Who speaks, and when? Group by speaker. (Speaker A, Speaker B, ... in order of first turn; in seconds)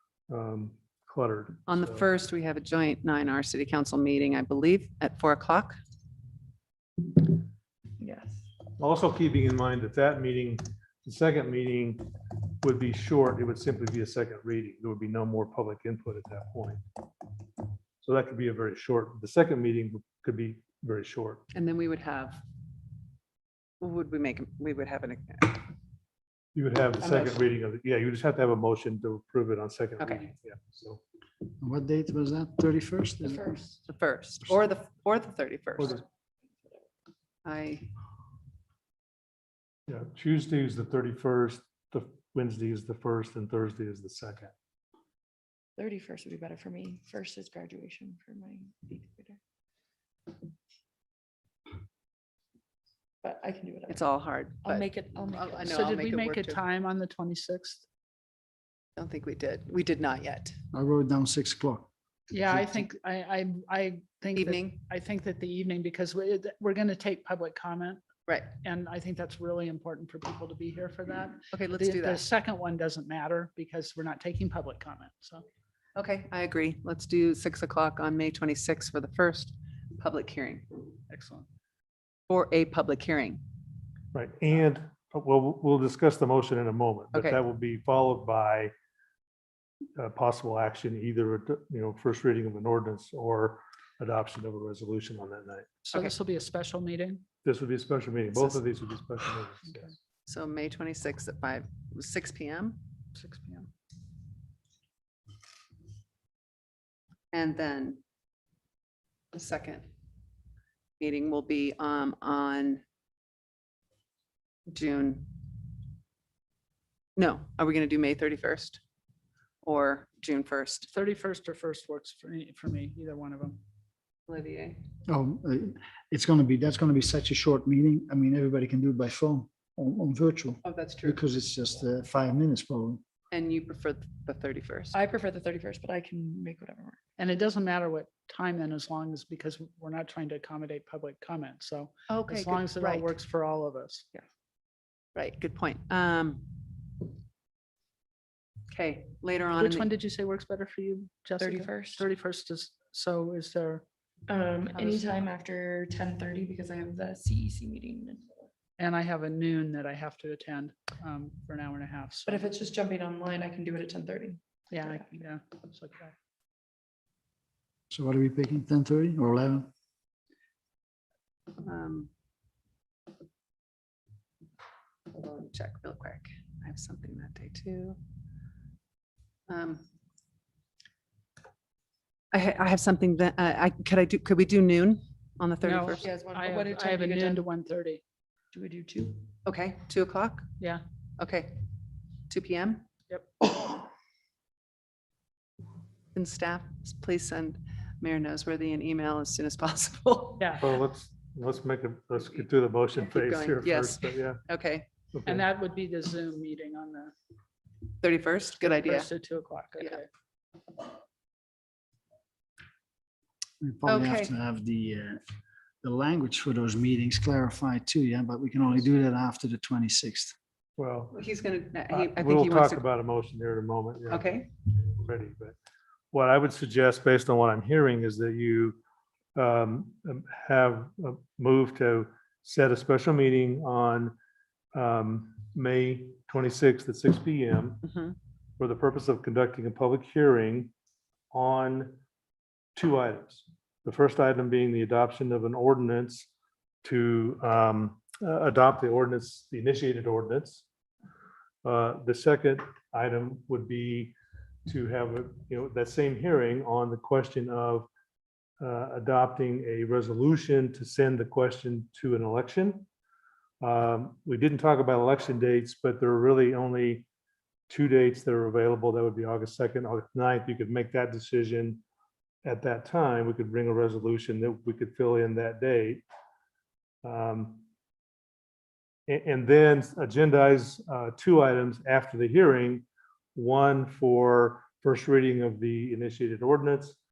Speaker A: 0.3-2.1, 8.8-12.1, 12.6-16.8, 18.0-21.4, 26.5-31.0, 39.9-44.5, 84.1-88.7, 90.0-95.7, 97.4-99.9, 200.6-204.4, 205.1-205.4, 220.8-221.2, 221.9-225.6, 226.1-228.8, 229.3-234.2, 234.7-237.8, 238.6-240.7, 241.3-242.0, 242.8-246.3, 246.8-250.7, 251.6-254.2, 254.7-257.9, 258.6-262.9, 263.6-267.1, 267.7-271.8, 272.4-276.0, 277.0-277.6, 279.1-287.0
Speaker B: 1.7-5.8, 21.5-22.4, 23.8-25.6, 27.0-27.4, 30.0-30.3, 33.9-36.0, 37.4-37.9, 53.9-56.6, 59.0-60.5, 64.3-64.8, 71.5-72.2, 75.9-80.7, 82.3-83.4, 87.1-87.4, 98.3-98.6, 100.2-102.8, 107.3-108.0, 109.3-109.9, 111.0-112.8, 114.7-115.3, 117.2-118.8, 119.6-120.9, 124.3-124.8, 130.6-131.2, 133.3-135.0, 142.1-143.1, 145.1-146.5, 148.7-149.9, 171.6-172.1, 175.1-178.0, 179.5-179.8, 182.3-186.1, 189.4-190.5, 191.2-191.6, 192.3-192.8, 196.1-200.6, 202.3-204.9, 208.0-209.1, 213.8-214.3, 221.1-222.8, 224.1-224.5, 237.8-238.1
Speaker C: 8.0-8.4, 33.2-33.8, 45.8-49.4, 53.2-54.0, 54.6-55.7, 134.9-137.0, 151.4-152.1, 154.3-158.5, 162.2-165.2, 186.0-187.4, 188.5-189.2
Speaker D: 31.6-33.4, 60.7-61.9, 62.5-62.8, 125.1-133.0, 167.9-169.7, 213.6-215.2, 215.8-220.3
Speaker E: 55.6-57.9, 62.3-75.4, 81.1-81.5, 95.8-97.2, 103.1-103.7, 120.9-123.6, 137.2-144.1, 149.6-153.8, 154.7-155.2, 158.8-162.6, 164.7-166.1, 185.6-188.0, 205.2-207.1, 208.6-210.1